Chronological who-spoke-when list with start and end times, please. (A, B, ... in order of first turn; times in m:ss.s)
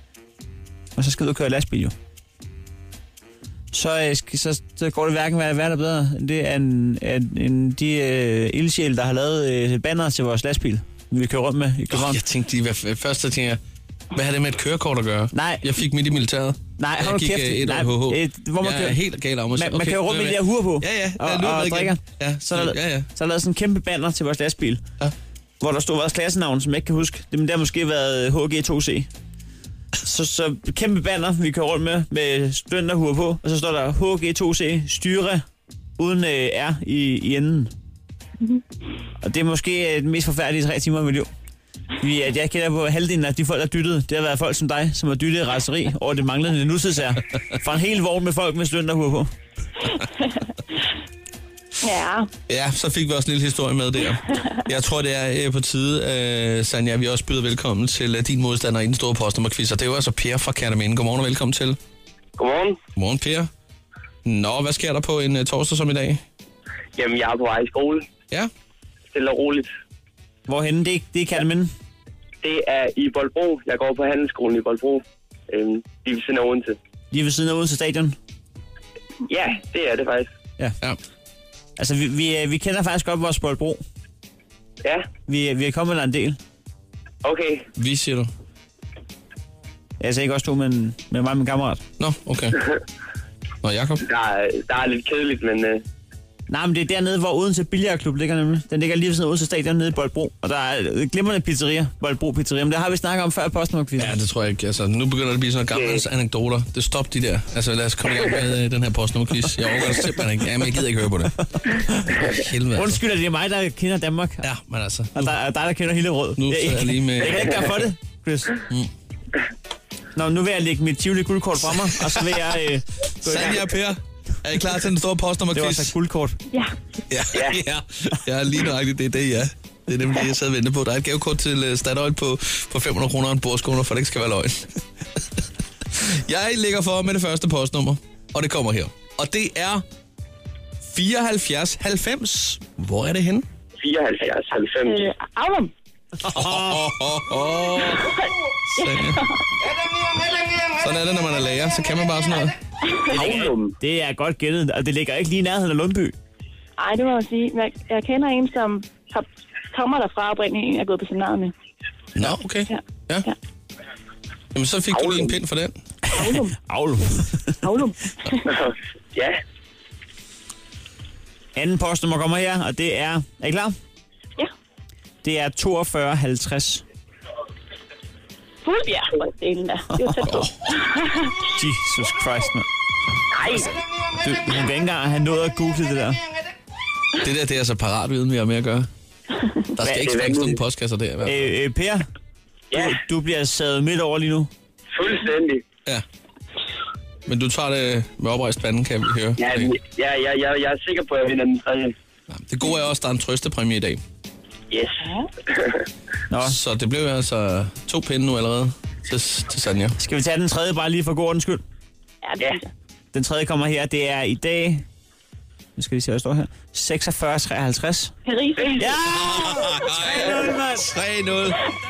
0:01.0-0:01.9 A
0:03.7-0:12.2 A
0:11.9-0:13.6 B
0:14.1-0:23.1 B
0:15.3-0:15.6 A
0:16.8-0:19.0 A
0:19.5-0:24.8 A
0:25.6-0:29.1 A
0:30.0-0:35.4 A
0:36.0-0:37.7 A
0:39.2-0:41.3 A
0:42.0-0:49.3 A
0:51.8-0:52.3 C
0:52.5-1:01.8 B
1:02.4-1:02.8 D
1:03.0-1:03.5 B
1:04.2-1:06.2 B
1:07.0-1:08.0 D
1:09.1-1:09.7 D
1:10.5-1:11.7 A
1:12.4-1:16.8 D
1:17.1-1:18.2 A
1:19.3-1:20.3 D
1:21.8-1:23.8 A
1:25.3-1:26.4 A
1:27.2-1:27.6 D
1:27.8-1:28.3 B
1:30.0-1:31.8 A
1:32.0-1:32.6 B
1:33.6-1:34.0 B
1:34.0-1:35.8 D
1:36.5-1:44.1 A
1:44.0-1:51.4 B
1:45.7-1:46.0 D
1:51.5-1:54.4 A
1:52.1-1:53.0 B
1:54.4-1:55.3 B
1:55.1-1:58.6 A
1:56.4-1:57.9 B
2:00.2-2:03.6 A
2:01.8-2:02.3 B
2:03.2-2:05.9 B
2:05.5-2:06.4 A
2:07.1-2:14.7 B
2:07.3-2:07.6 D
2:15.9-2:19.8 B
2:20.8-2:23.4 B
2:23.8-2:25.1 D
2:24.9-2:25.7 C
2:26.2-2:26.8 A
2:26.3-2:28.1 B
2:28.0-2:29.4 C
2:28.7-2:29.2 B
2:30.8-2:32.5 B
2:33.1-2:36.1 A
2:33.1-2:33.7 D
2:36.8-2:41.5 C
2:42.2-2:43.3 B
2:42.7-2:43.3 C
2:44.5-2:45.8 B
2:44.9-2:45.3 D
2:46.1-2:47.5 A
2:46.1-2:46.6 C
2:47.1-2:48.5 C
2:48.5-2:49.4 D
2:51.6-2:53.7 A
2:55.2-2:56.8 A
2:58.6-3:01.3 C
2:59.9-3:00.5 A
3:00.2-3:00.5 B
3:01.5-3:02.7 A
3:03.4-3:03.7 D
3:03.5-3:06.2 A
3:07.2-3:08.9 B
3:09.7-3:11.5 B
3:09.8-3:10.5 A
3:09.9-3:10.5 D
3:11.2-3:12.1 A
3:12.7-3:13.0 D
3:12.7-3:14.5 A
3:14.9-3:15.6 D
3:17.3-3:19.7 B
3:19.4-3:21.9 D
3:22.3-3:24.0 B
3:24.7-3:25.0 D
3:26.3-3:26.6 A
3:26.4-3:30.0 B
3:30.0-3:31.6 A
3:32.2-3:32.7 C
3:33.1-3:34.8 A
3:35.8-3:38.1 A
3:38.2-3:38.9 C
3:38.6-3:38.9 D
3:38.8-3:40.9 A
3:39.0-3:41.6 B